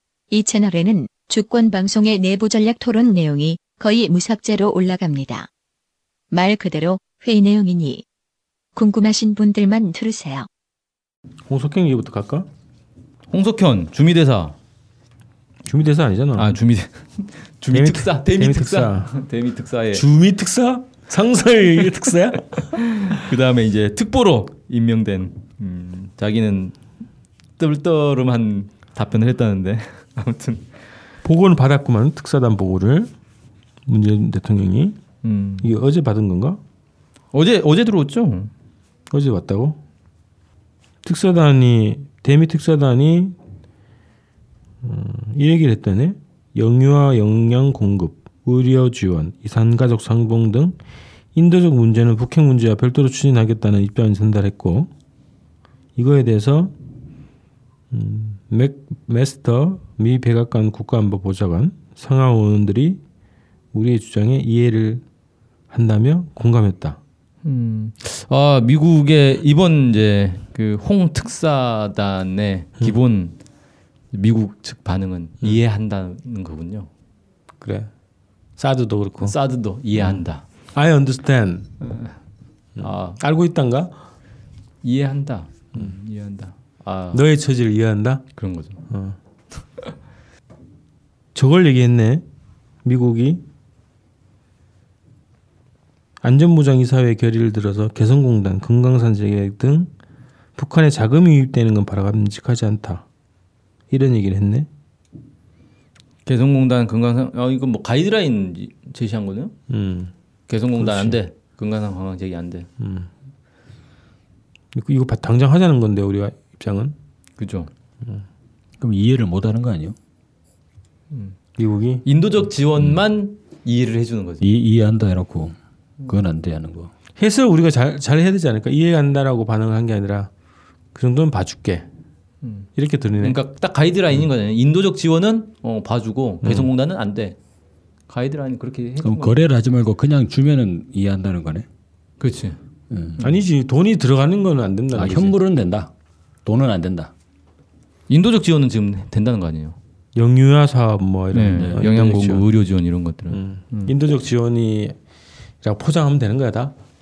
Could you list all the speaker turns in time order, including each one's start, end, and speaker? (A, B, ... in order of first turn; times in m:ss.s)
0:00.3-0:05.5 A
0:06.3-0:08.0 A
0:08.7-0:10.5 A
0:11.5-0:12.5 B
0:13.3-0:14.6 C
0:15.6-0:16.6 B
0:16.4-0:20.0 C
0:17.7-0:19.2 B
0:19.9-0:22.8 B
0:22.7-0:26.8 C
0:27.6-0:30.6 C
0:31.2-0:33.1 B
0:33.8-0:35.0 B
0:35.2-0:35.7 C
0:35.6-0:36.6 B
0:37.3-0:38.5 C
0:39.1-0:39.8 B
0:41.0-0:43.4 B
0:44.8-0:50.8 B
0:51.3-0:54.9 B
0:56.0-0:56.7 B
0:57.9-1:03.0 B
1:03.7-1:05.0 B
1:05.7-1:07.0 B
1:07.4-1:13.4 C
1:14.1-1:16.9 C
1:17.6-1:17.9 B
1:18.6-1:19.4 B
1:19.2-1:20.4 C
1:20.7-1:21.7 B
1:21.8-1:22.1 C
1:22.8-1:23.9 B
1:22.8-1:23.2 C
1:24.8-1:27.2 C
1:27.1-1:28.2 B
1:28.4-1:28.8 C
1:28.9-1:29.2 B
1:31.3-1:32.2 B
1:32.8-1:33.4 B
1:36.2-1:39.9 B
1:40.6-1:43.0 B
1:43.9-1:44.7 B
1:46.2-1:49.5 C
1:49.7-1:50.1 B
1:50.5-1:52.7 C
1:50.8-1:51.2 B
1:52.8-1:53.1 B
1:54.7-1:56.9 B
1:57.4-1:57.7 C
1:58.8-1:59.9 D
2:01.1-2:01.4 C
2:01.6-2:02.0 B
2:02.0-2:04.4 C
2:04.4-2:06.9 D
2:07.2-2:10.3 B
2:10.9-2:11.8 B
2:12.8-2:13.4 B
2:13.2-2:17.4 C
2:16.4-2:16.7 B
2:18.1-2:19.4 C
2:19.0-2:21.6 D
2:22.2-2:22.6 C
2:22.9-2:23.2 D
2:23.2-2:25.3 B
2:24.9-2:25.9 D
2:26.4-2:27.1 D
2:28.1-2:29.8 C
2:30.1-2:32.4 B
2:31.3-2:33.9 C
2:31.6-2:31.8 D
2:33.3-2:35.0 B
2:35.6-2:36.7 B